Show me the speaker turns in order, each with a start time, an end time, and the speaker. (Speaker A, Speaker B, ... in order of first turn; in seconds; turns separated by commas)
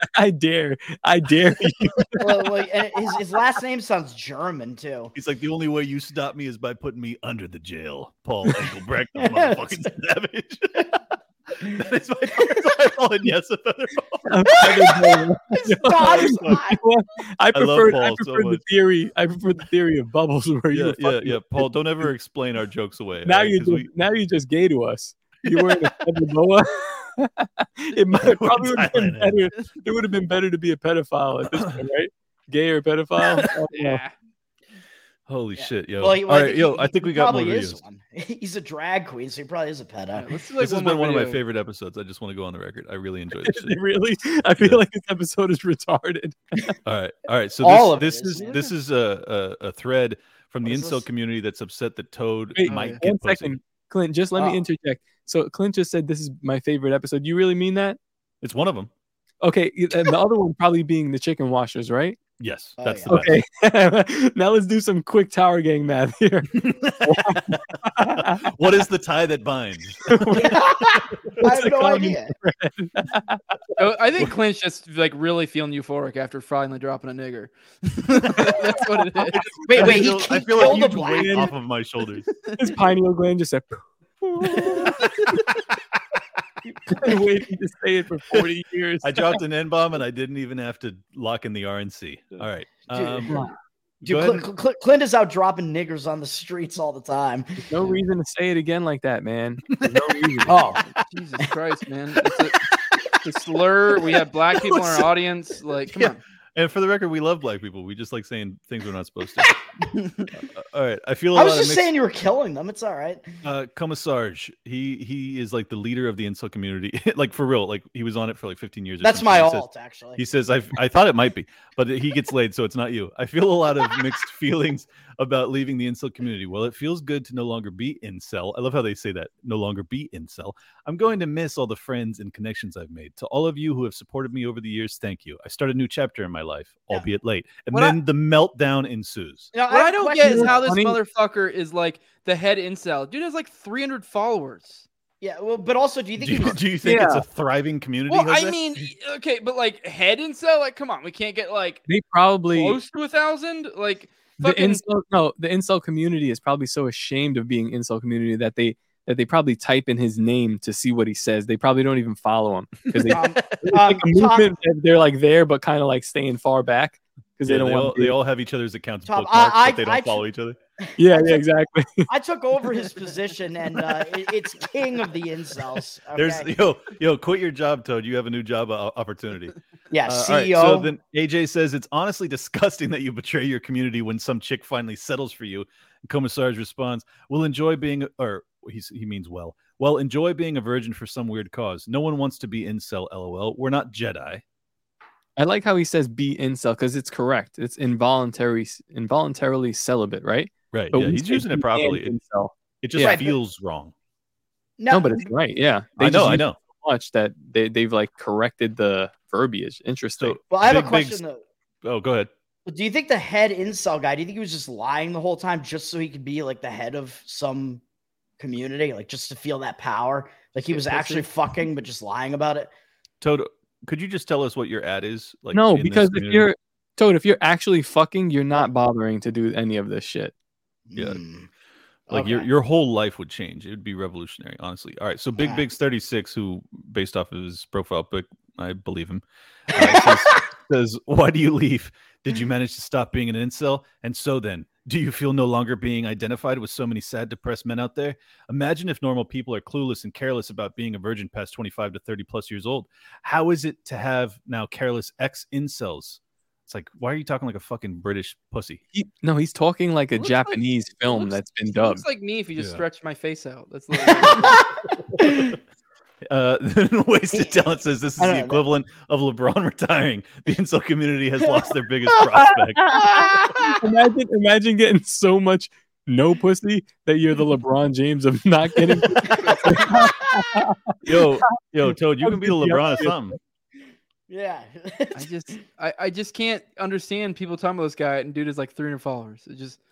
Speaker A: 0.1-2.5, Speaker B: 2.2-5.1, Speaker C: 5.1-11.0, Speaker B: 9.2-9.8, Speaker C: 11.6-14.2, Speaker A: 14.2-22.1, Speaker B: 14.6-16.8, Speaker C: 16.0-16.6, Speaker C: 17.5-18.6, Speaker C: 20.7-23.9, Speaker A: 23.2-34.0, Speaker C: 28.1-29.5, Speaker C: 31.5-31.8, Speaker D: 33.7-34.1, Speaker C: 35.3-37.8, Speaker B: 35.5-40.3, Speaker D: 40.1-41.4, Speaker C: 40.6-43.8, Speaker A: 43.4-46.7, Speaker C: 46.8-53.6, Speaker B: 47.6-48.7, Speaker B: 50.6-51.0, Speaker A: 52.5-58.0, Speaker D: 52.7-53.0, Speaker C: 58.4-58.9, Speaker A: 59.4-62.2, Speaker C: 62.4-63.4, Speaker B: 62.8-63.2, Speaker A: 63.1-68.4, Speaker C: 66.6-67.5, Speaker C: 68.1-70.5, Speaker A: 70.0-73.4, Speaker B: 70.3-72.3, Speaker D: 73.8-79.4, Speaker A: 79.0-81.5, Speaker C: 79.3-82.3, Speaker B: 79.7-81.5, Speaker A: 82.6-85.1, Speaker B: 86.6-87.2, Speaker A: 86.9-89.4, Speaker C: 89.0-93.4, Speaker B: 92.9-93.5, Speaker C: 94.0-94.5, Speaker B: 94.0-97.6, Speaker A: 97.6-100.8, Speaker B: 100.5-100.8, Speaker D: 101.0-102.6, Speaker D: 103.2-106.2, Speaker C: 105.9-109.5, Speaker C: 110.5-111.9, Speaker B: 111.3-113.3, Speaker C: 113.4-139.5, Speaker B: 119.0-120.2, Speaker D: 137.7-138.0, Speaker B: 139.5-140.6, Speaker D: 139.7-144.8, Speaker A: 140.2-141.0, Speaker B: 145.2-146.6, Speaker C: 146.2-148.8, Speaker A: 146.8-147.2, Speaker D: 148.1-151.8, Speaker A: 151.9-152.8, Speaker D: 152.5-154.8, Speaker A: 154.4-168.2, Speaker B: 163.1-164.5, Speaker C: 167.4-170.6, Speaker B: 169.1-170.2, Speaker B: 170.8-171.4, Speaker A: 171.0-172.1, Speaker B: 172.1-176.5, Speaker C: 176.2-194.4, Speaker B: 179.9-180.9, Speaker A: 195.3-203.2, Speaker C: 200.7-202.1, Speaker C: 202.8-203.9, Speaker B: 203.0-203.3, Speaker B: 204.8-205.3, Speaker A: 204.9-210.4, Speaker C: 206.0-206.6, Speaker C: 210.2-211.2, Speaker B: 210.5-211.4, Speaker C: 211.8-212.3, Speaker B: 212.7-217.8, Speaker B: 218.4-222.7, Speaker D: 220.7-221.3, Speaker C: 223.2-226.5, Speaker A: 225.5-230.3, Speaker B: 230.9-231.5, Speaker C: 230.9-231.2, Speaker B: 232.1-232.5, Speaker C: 232.1-258.8, Speaker B: 235.4-235.6, Speaker B: 239.7-240.4, Speaker A: 258.9-262.0, Speaker D: 260.2-264.6, Speaker C: 262.6-262.8, Speaker B: 264.1-264.6, Speaker B: 265.2-265.6, Speaker C: 266.3-272.9, Speaker B: 267.3-267.6, Speaker B: 268.2-268.6, Speaker A: 272.4-281.2, Speaker B: 272.9-273.8, Speaker B: 279.2-280.4, Speaker C: 281.0-283.4, Speaker A: 281.8-283.3, Speaker B: 284.3-285.3, Speaker D: 285.1-289.8